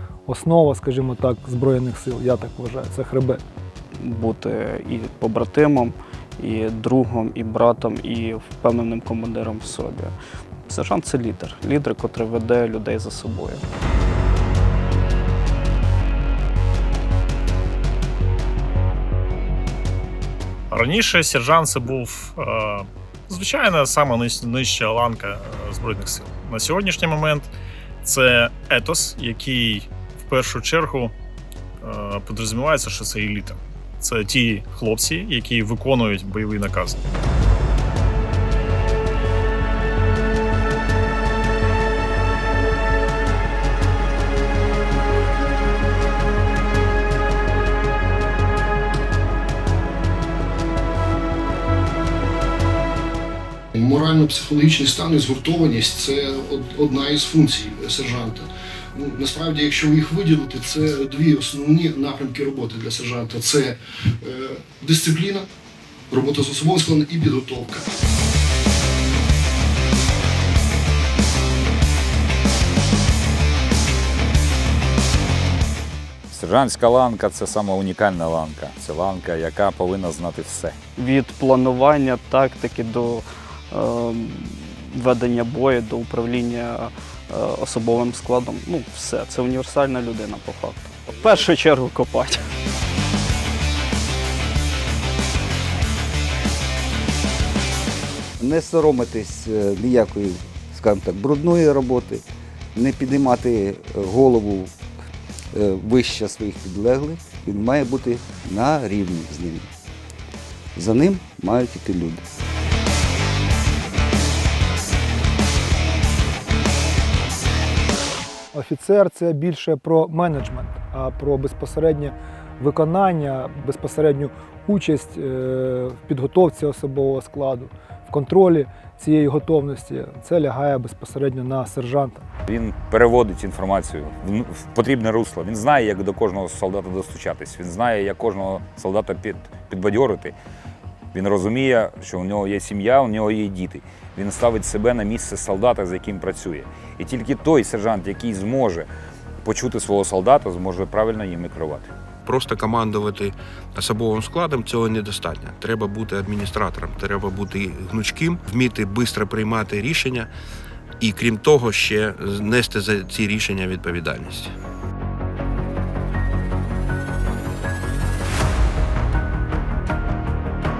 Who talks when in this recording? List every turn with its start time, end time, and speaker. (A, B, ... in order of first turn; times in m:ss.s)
0:00.3-0:03.4 A
0:04.0-0:10.1 B
0:10.6-0:13.6 B
0:20.7-0:27.5 C
0:28.0-0:31.1 C
0:31.8-0:37.0 C
0:53.7-1:05.5 D
1:06.1-1:07.9 D
1:16.3-1:20.7 E
1:21.0-1:32.4 B
1:38.4-1:42.2 F
1:42.7-1:44.8 F
1:45.5-1:49.7 F
1:50.8-1:52.2 F
1:58.5-2:12.2 A
2:12.5-2:20.3 E
2:21.1-2:28.9 E
2:29.4-2:31.9 E
2:32.2-2:40.3 G
2:41.0-2:44.5 G